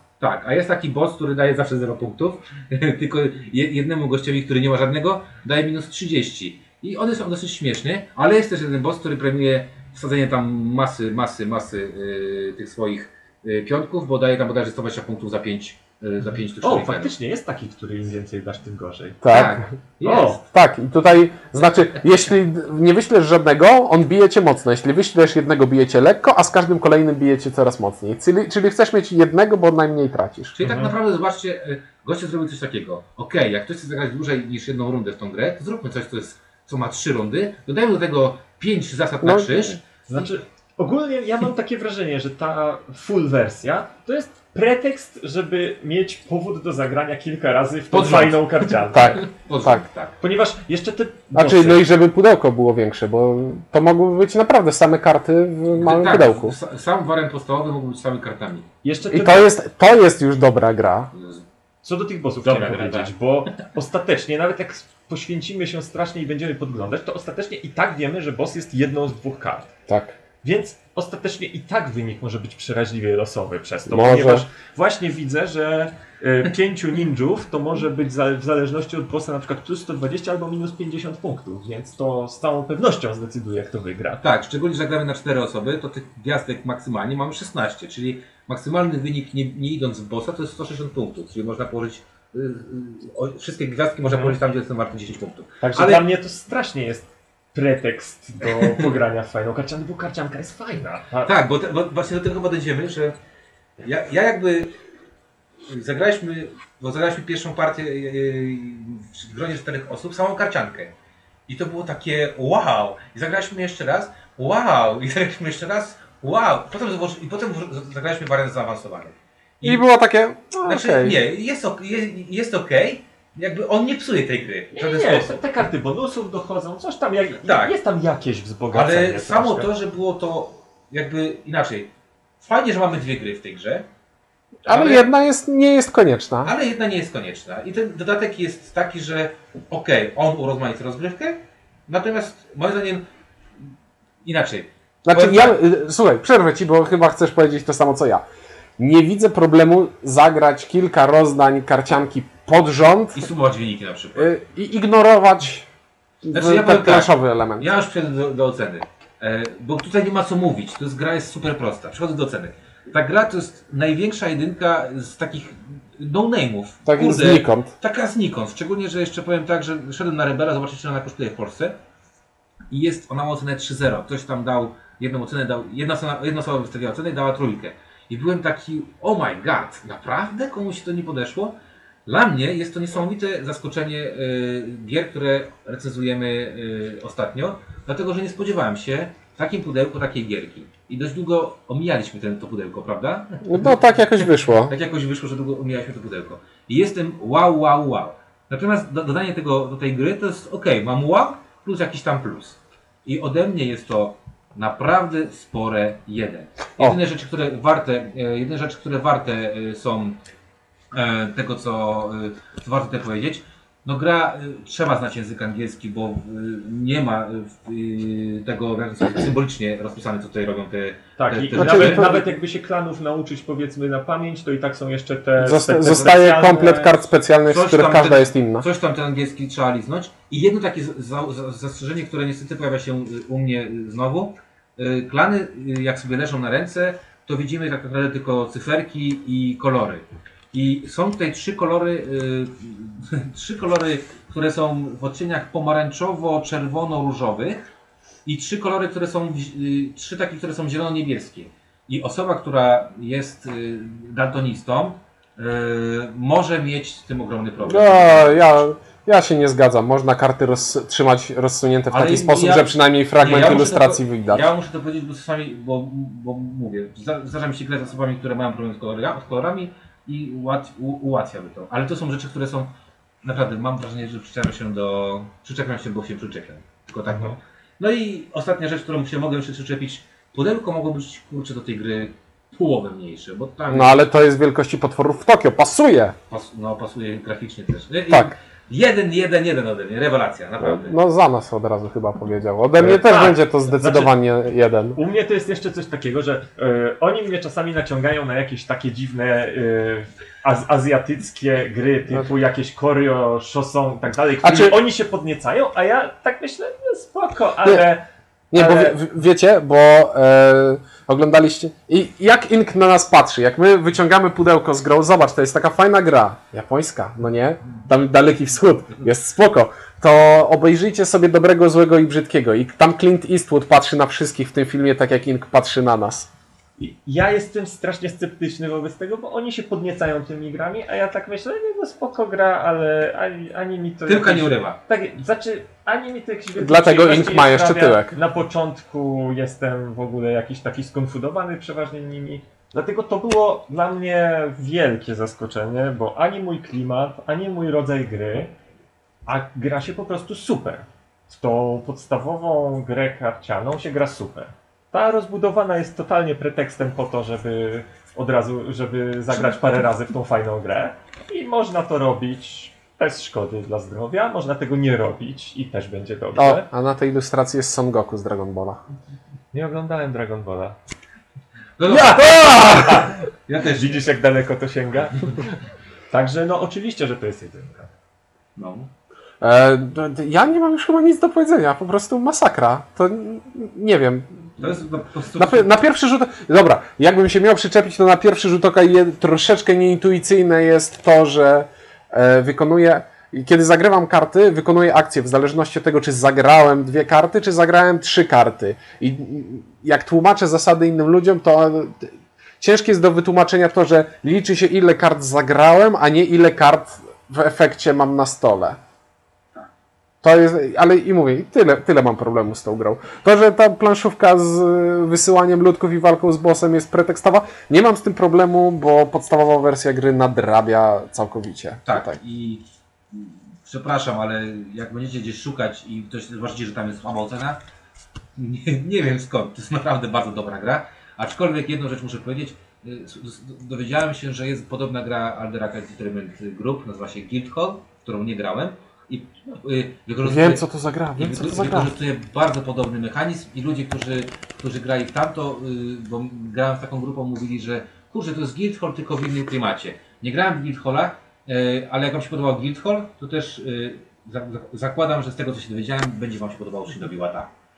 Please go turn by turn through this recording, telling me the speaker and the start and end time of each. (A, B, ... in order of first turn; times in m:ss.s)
0:00.2-0:17.1 A
0:16.6-0:19.4 B
0:19.2-0:19.6 C
0:19.3-0:20.4 A
0:20.0-0:20.4 B
0:20.4-0:30.6 C
0:30.6-0:39.9 A
0:30.6-0:30.9 B
0:39.2-0:39.8 C
0:40.1-0:49.2 B
0:47.9-0:50.2 A
0:48.9-0:49.8 C
0:50.2-0:51.8 B
0:51.3-0:56.6 C
0:55.7-0:58.7 A
0:58.8-0:59.5 B
0:59.1-1:01.1 C
1:01.1-1:01.4 A
1:01.8-1:09.7 B
1:02.4-1:03.1 A
1:09.9-1:10.1 C
1:10.4-1:24.2 B
1:13.9-1:14.5 C
1:24.2-1:36.0 A
1:34.0-1:34.4 B
1:35.6-1:41.3 B
1:41.2-1:43.2 A
1:43.8-1:44.8 A
1:45.7-1:50.9 A
1:51.5-1:59.8 A
1:59.6-2:01.2 C
2:00.6-2:05.4 A
2:04.7-2:09.7 B
2:07.4-2:07.8 A
2:08.7-2:13.9 A
2:14.6-2:15.1 A
2:14.7-2:16.5 C
2:16.4-2:23.1 A
2:24.2-2:25.6 A
2:25.0-2:28.2 C
2:28.8-2:33.3 C
2:33.2-2:34.3 A
2:34.2-2:35.7 C
2:36.2-2:37.7 C
2:36.3-2:51.8 A
2:46.9-2:47.7 C
2:52.7-3:30.2 A
3:13.4-3:14.7 C
3:30.9-3:42.3 A
3:41.2-3:47.0 B
3:41.6-3:42.3 C
3:45.4-3:48.7 C
3:47.5-4:07.7 A
4:08.3-4:18.7 A
4:17.7-4:24.5 C
4:21.9-4:32.7 A
4:33.2-4:44.1 A
4:37.1-4:37.4 B
4:43.7-4:46.2 C
4:46.3-4:51.0 A
4:48.1-4:48.4 C
4:50.6-4:55.0 C
4:52.8-4:54.2 B
4:55.0-5:09.0 B
5:04.4-5:04.8 C
5:08.5-5:26.3 C
5:26.8-5:48.5 B
5:34.1-5:34.8 A
5:36.6-5:38.1 C
5:49.3-6:06.7 B
6:06.4-6:08.8 C
6:09.5-6:10.8 B
6:11.8-6:12.6 A
6:11.9-6:15.5 B
6:11.9-6:13.1 C
6:13.5-6:14.0 A
6:16.1-6:17.9 B
6:18.6-6:18.9 A
6:19.4-6:24.3 C
6:24.6-6:25.7 A
6:25.4-6:48.8 C
6:50.2-7:02.2 C
7:01.9-7:07.6 A
7:08.4-7:20.6 A
7:20.2-7:21.9 C
7:21.2-7:37.5 A